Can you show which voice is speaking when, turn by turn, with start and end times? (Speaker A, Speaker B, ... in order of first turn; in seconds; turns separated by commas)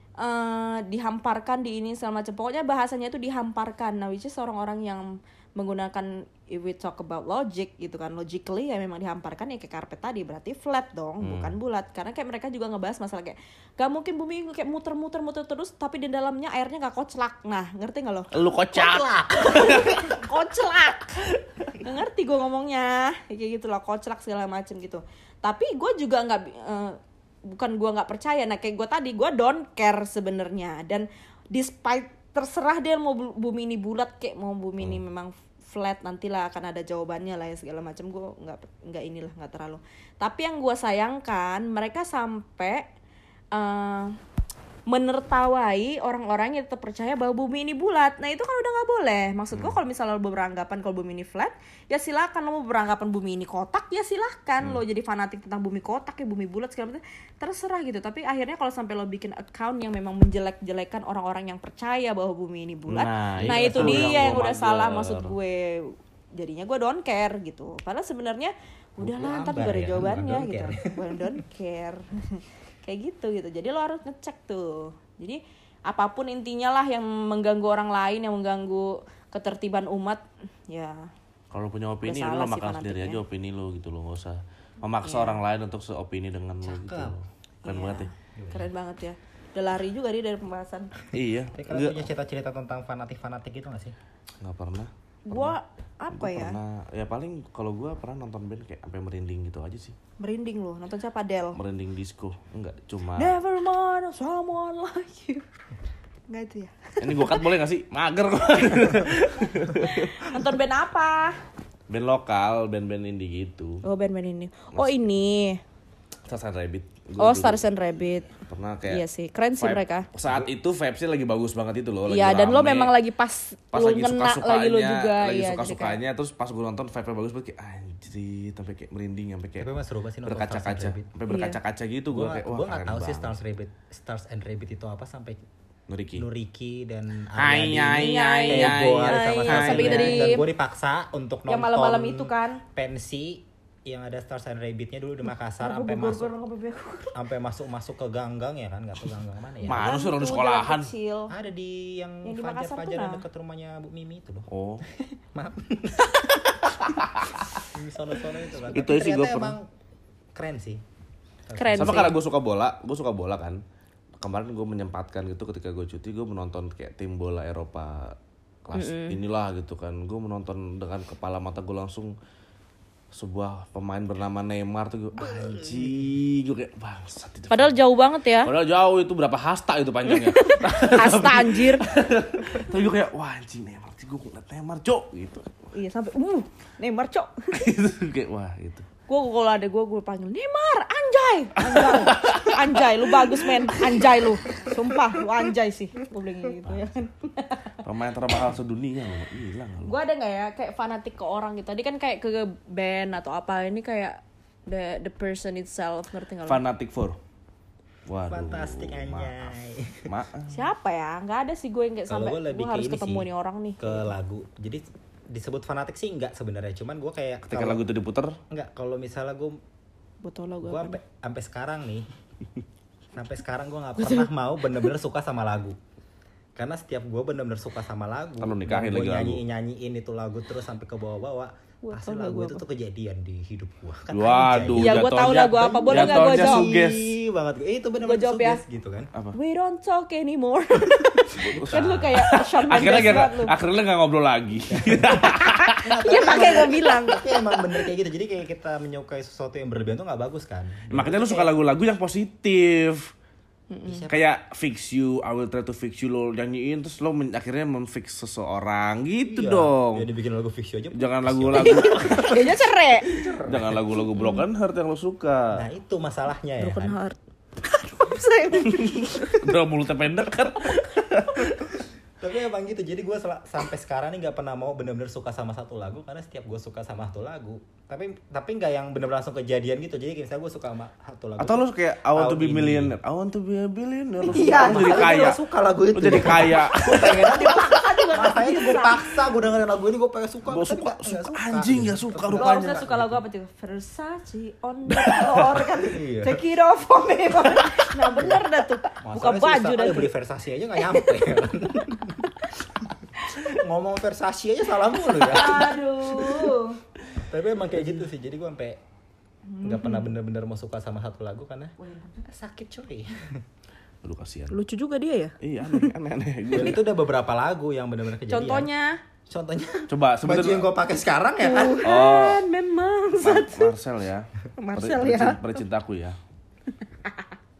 Speaker A: 0.2-18.3, Speaker B: 11.2-11.6, Speaker B: 18.3-20.2, Speaker C: 18.8-20.0, Speaker A: 19.4-21.2, Speaker A: 21.7-42.9, Speaker A: 43.5-44.2, Speaker A: 44.9-81.1, Speaker B: 62.9-65.3, Speaker C: 63.4-64.4, Speaker C: 69.0-71.4, Speaker B: 81.5-88.1, Speaker A: 82.0-83.2, Speaker A: 85.0-85.4, Speaker C: 86.6-87.2, Speaker A: 87.7-90.9, Speaker C: 88.3-88.7, Speaker B: 91.1-92.1, Speaker C: 91.5-94.0, Speaker B: 94.4-95.6, Speaker A: 95.3-96.6, Speaker B: 96.1-100.0, Speaker A: 100.2-101.6, Speaker B: 101.6-103.3, Speaker A: 103.2-105.5, Speaker A: 106.3-107.5, Speaker B: 107.0-110.3, Speaker A: 109.7-111.4, Speaker B: 111.9-113.8, Speaker A: 113.8-115.6, Speaker B: 114.7-115.0, Speaker B: 116.3-117.7, Speaker A: 117.2-118.3, Speaker B: 118.3-119.0, Speaker A: 118.9-120.1, Speaker B: 119.6-122.9, Speaker C: 120.2-120.5, Speaker A: 122.1-126.0, Speaker B: 123.7-129.7, Speaker C: 129.6-131.1, Speaker B: 130.3-133.3, Speaker A: 131.3-131.6, Speaker C: 132.1-135.4, Speaker B: 135.9-136.3, Speaker C: 136.2-146.3, Speaker B: 137.4-140.4, Speaker A: 138.0-140.4, Speaker A: 141.5-142.6, Speaker A: 145.6-147.2, Speaker C: 147.2-149.9, Speaker B: 149.7-150.9, Speaker A: 149.7-151.3, Speaker C: 151.3-156.2, Speaker A: 152.2-153.2, Speaker B: 154.5-154.8, Speaker B: 156.6-157.6, Speaker C: 157.7-159.7, Speaker B: 158.7-159.6, Speaker C: 160.3-160.8, Speaker C: 161.5-162.2, Speaker A: 161.6-162.2, Speaker B: 161.8-163.6, Speaker B: 164.2-172.1, Speaker A: 168.7-169.2, Speaker B: 173.1-177.8, Speaker C: 175.2-176.2, Speaker A: 177.5-178.5, Speaker B: 178.4-185.5, Speaker A: 180.1-181.9, Speaker A: 185.7-187.7, Speaker B: 187.5-188.9, Speaker A: 189.1-197.8, Speaker B: 191.6-195.0, Speaker C: 196.7-196.9, Speaker B: 197.8-199.9, Speaker A: 199.8-206.6, Speaker B: 206.4-207.2, Speaker B: 208.1-209.5, Speaker C: 208.3-210.1, Speaker B: 210.1-210.6, Speaker A: 210.5-214.1, Speaker C: 212.1-213.3, Speaker C: 213.8-217.8, Speaker B: 217.5-218.4, Speaker C: 218.5-219.6, Speaker A: 220.2-221.0, Speaker C: 220.6-222.1, Speaker C: 223.2-225.8, Speaker A: 224.0-224.9, Speaker C: 226.6-239.1, Speaker B: 228.4-229.4, Speaker A: 231.8-232.6, Speaker B: 234.1-237.1, Speaker A: 234.7-236.7, Speaker A: 238.0-238.6, Speaker A: 239.3-243.6, Speaker B: 241.3-245.8, Speaker C: 241.4-242.3, Speaker C: 242.8-243.2, Speaker C: 244.7-245.3, Speaker A: 245.2-247.8, Speaker C: 245.8-251.5, Speaker B: 250.9-253.1, Speaker A: 253.7-254.1, Speaker C: 253.9-254.3, Speaker B: 254.1-260.1, Speaker C: 259.2-263.8, Speaker B: 260.9-262.4, Speaker A: 261.6-263.1, Speaker B: 263.4-265.6, Speaker A: 264.2-264.4, Speaker C: 265.5-267.0, Speaker A: 266.6-269.5, Speaker B: 268.6-271.7, Speaker C: 272.2-282.9, Speaker B: 281.4-285.4, Speaker A: 284.2-285.4, Speaker C: 284.3-293.2, Speaker B: 285.9-287.5, Speaker A: 287.0-289.2, Speaker B: 290.5-292.9, Speaker A: 292.4-300.1, Speaker B: 295.0-295.3, Speaker C: 295.8-296.4, Speaker C: 298.0-298.5, Speaker C: 299.0-306.6, Speaker A: 305.1-306.8, Speaker C: 307.2-308.8, Speaker A: 309.5-310.1, Speaker C: 309.6-313.4, Speaker A: 311.8-312.2, Speaker B: 314.0-314.6, Speaker A: 314.5-315.9, Speaker B: 315.4-316.8, Speaker C: 316.5-318.7, Speaker A: 318.3-319.0, Speaker C: 319.3-321.9, Speaker B: 319.9-320.7, Speaker A: 321.4-323.7, Speaker B: 321.8-322.4, Speaker B: 323.2-326.2, Speaker A: 324.6-325.6, Speaker A: 326.8-327.3